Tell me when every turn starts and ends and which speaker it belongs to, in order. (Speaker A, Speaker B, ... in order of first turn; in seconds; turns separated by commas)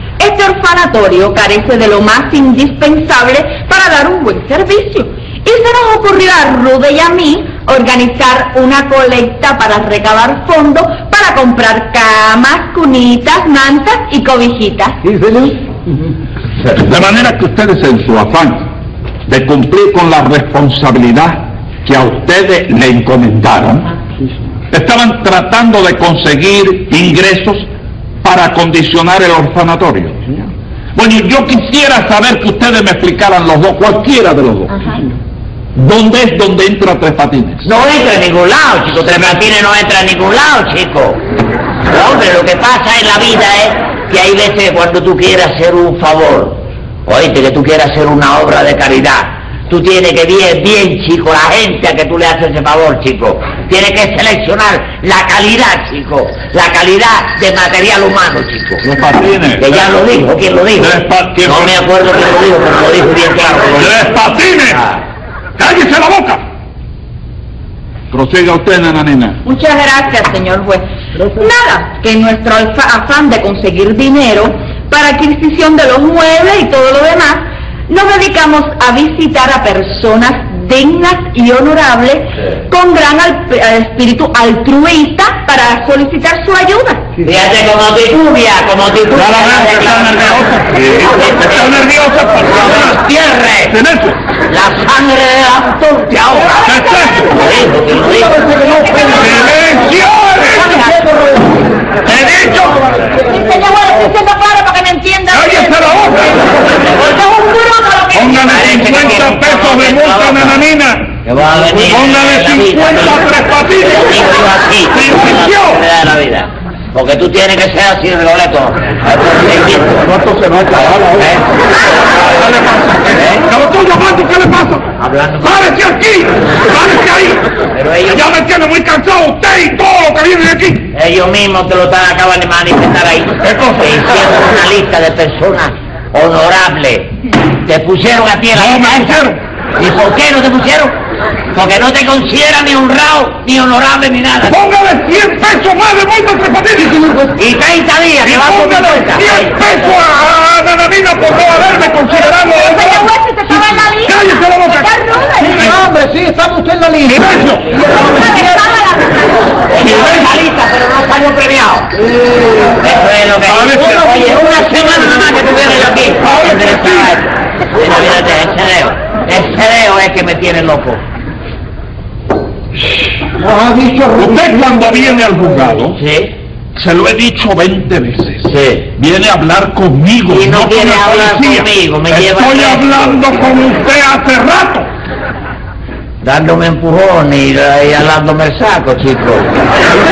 Speaker A: 0.2-15.0, Speaker B: 15.0-15.6, Speaker C: 16.6-18.6, Speaker C: 19.3-23.9, Speaker C: 24.7-27.7, Speaker C: 28.2-30.2, Speaker C: 30.9-34.8, Speaker C: 35.7-37.7, Speaker D: 37.6-41.2, Speaker D: 41.9-58.8, Speaker C: 58.8-59.9, Speaker D: 59.6-64.2, Speaker C: 60.8-61.8, Speaker C: 63.7-64.8, Speaker D: 64.7-65.0, Speaker C: 65.6-66.4, Speaker C: 68.1-69.4, Speaker A: 69.4-87.0, Speaker D: 87.2-93.7, Speaker C: 89.1-93.0, Speaker C: 93.7-94.2, Speaker D: 94.5-96.7, Speaker C: 96.6-97.4, Speaker D: 97.3-98.5, Speaker B: 98.2-99.5, Speaker A: 98.6-99.3, Speaker C: 99.0-100.7, Speaker B: 100.5-101.7, Speaker A: 100.6-100.9, Speaker C: 102.0-102.8, Speaker B: 102.6-103.3, Speaker A: 103.2-108.5, Speaker C: 105.3-106.6, Speaker C: 108.1-114.2, Speaker D: 108.3-110.6, Speaker D: 111.2-113.2, Speaker D: 113.8-120.1, Speaker C: 114.9-115.8, Speaker C: 120.0-121.4, Speaker D: 120.8-121.4, Speaker C: 122.1-127.5, Speaker D: 123.1-123.4, Speaker D: 125.0-125.7, Speaker D: 127.7-128.2, Speaker C: 128.1-130.9, Speaker D: 130.9-140.9, Speaker C: 138.5-139.4, Speaker D: 141.5-144.6, Speaker C: 144.5-147.1, Speaker D: 147.3-149.5, Speaker C: 148.2-153.1, Speaker A: 152.3-155.7, Speaker C: 153.9-154.9, Speaker B: 155.4-158.7, Speaker C: 157.1-157.7, Speaker A: 157.9-159.5, Speaker D: 159.7-161.9, Speaker C: 159.8-160.3, Speaker B: 161.9-162.9, Speaker D: 162.8-171.0, Speaker C: 163.4-164.3, Speaker B: 163.8-164.7, Speaker C: 166.2-167.1, Speaker B: 173.3-174.8, Speaker C: 174.2-176.0, Speaker D: 175.9-176.3, Speaker C: 176.7-184.9, Speaker D: 178.4-178.9, Speaker D: 180.3-183.2, Speaker D: 186.2-189.5